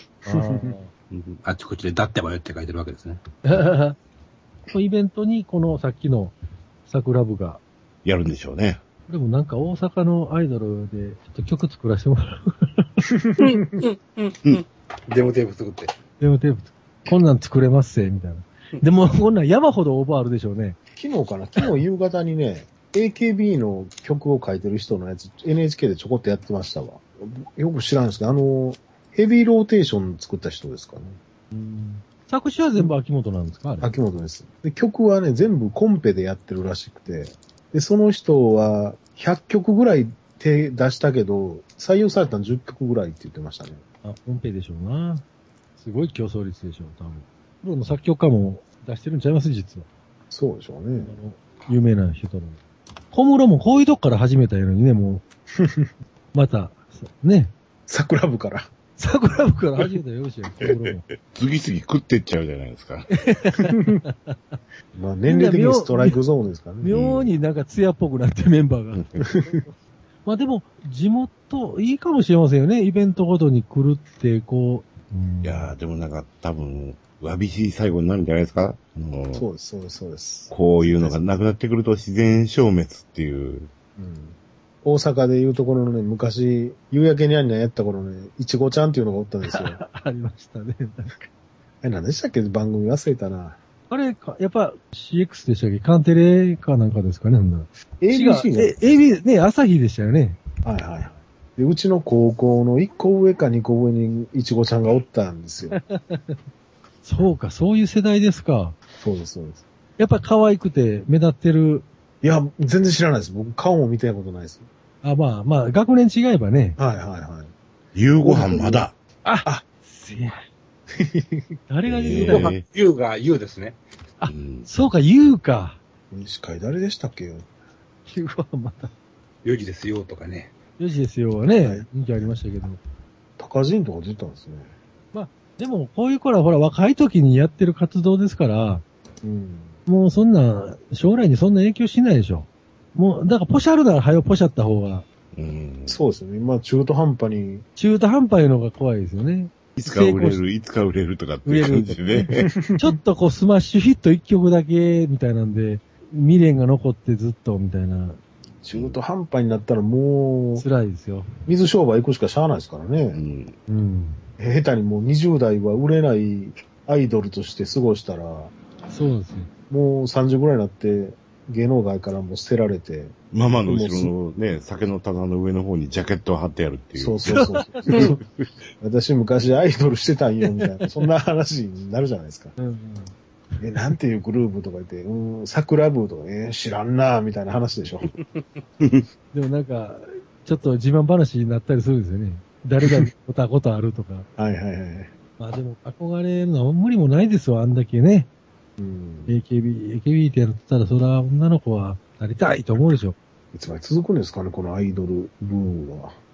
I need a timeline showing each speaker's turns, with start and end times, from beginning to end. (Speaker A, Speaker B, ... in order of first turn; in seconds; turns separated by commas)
Speaker A: 0.2-0.9, Speaker B: 0.3-0.8, Speaker C: 1.1-3.2, Speaker A: 3.4-4.0, Speaker A: 4.7-6.3, Speaker A: 6.9-7.6, Speaker D: 8.0-8.8, Speaker A: 9.1-12.9, Speaker B: 13.1-13.8, Speaker C: 13.4-15.9, Speaker A: 16.2-20.8, Speaker B: 21.0-31.2, Speaker A: 31.5-33.9, Speaker B: 33.8-43.8, Speaker A: 44.0-45.2, Speaker A: 45.8-49.9, Speaker B: 50.3-51.2, Speaker A: 51.0-52.6, Speaker A: 53.1-55.2, Speaker B: 55.5-55.9, Speaker A: 56.3-57.5, Speaker B: 57.9-58.7, Speaker A: 59.0-61.0, Speaker D: 60.6-63.1, Speaker A: 63.1-64.6, Speaker B: 63.7-64.0, Speaker B: 64.9-67.0, Speaker A: 65.2-66.2, Speaker A: 66.8-75.7, Speaker D: 66.9-67.3, Speaker D: 75.4-79.5, Speaker B: 79.3-81.2, Speaker D: 80.5-83.7, Speaker B: 84.0-89.8, Speaker A: 89.5-91.3, Speaker B: 91.8-93.6, Speaker A: 93.9-100.4, Speaker B: 98.0-99.1, Speaker B: 100.6-105.8, Speaker A: 105.7-106.4, Speaker A: 107.0-108.8, Speaker B: 109.0-109.6, Speaker A: 110.0-111.8, Speaker B: 112.2-114.7, Speaker A: 115.0-116.8, Speaker B: 116.8-117.5, Speaker D: 117.9-118.9, Speaker A: 118.2-120.4, Speaker B: 118.3-118.7, Speaker B: 121.0-121.4, Speaker A: 121.7-122.5, Speaker D: 121.8-122.6, Speaker C: 122.3-123.8, Speaker A: 124.2-125.8, Speaker D: 124.3-124.7, Speaker B: 126.1-127.5, Speaker A: 128.1-128.9, Speaker C: 129.4-130.5, Speaker A: 130.8-132.8, Speaker B: 131.6-132.3, Speaker B: 133.4-134.7, Speaker A: 135.1-138.8, Speaker B: 139.2-139.8, Speaker A: 139.8-145.0, Speaker D: 145.3-146.0, Speaker B: 145.9-147.6, Speaker A: 147.8-150.4, Speaker D: 149.8-152.5, Speaker A: 151.4-152.2, Speaker B: 152.4-152.9, Speaker A: 152.8-158.2, Speaker B: 158.6-160.6, Speaker D: 158.7-159.0, Speaker A: 160.6-161.3, Speaker B: 161.5-163.2, Speaker D: 163.1-163.6, Speaker A: 163.7-164.2, Speaker B: 164.4-168.5, Speaker A: 168.9-169.5, Speaker B: 169.7-174.1, Speaker D: 173.3-178.5, Speaker B: 177.0-178.2, Speaker A: 177.3-178.1, Speaker B: 178.8-182.5, Speaker A: 180.5-180.8, Speaker A: 182.6-183.1, Speaker B: 183.6-188.1, Speaker D: 188.8-189.1, Speaker A: 189.3-194.3, Speaker B: 194.4-195.1, Speaker A: 195.4-198.3, Speaker B: 198.8-199.3, Speaker A: 199.3-203.2, Speaker B: 203.5-206.2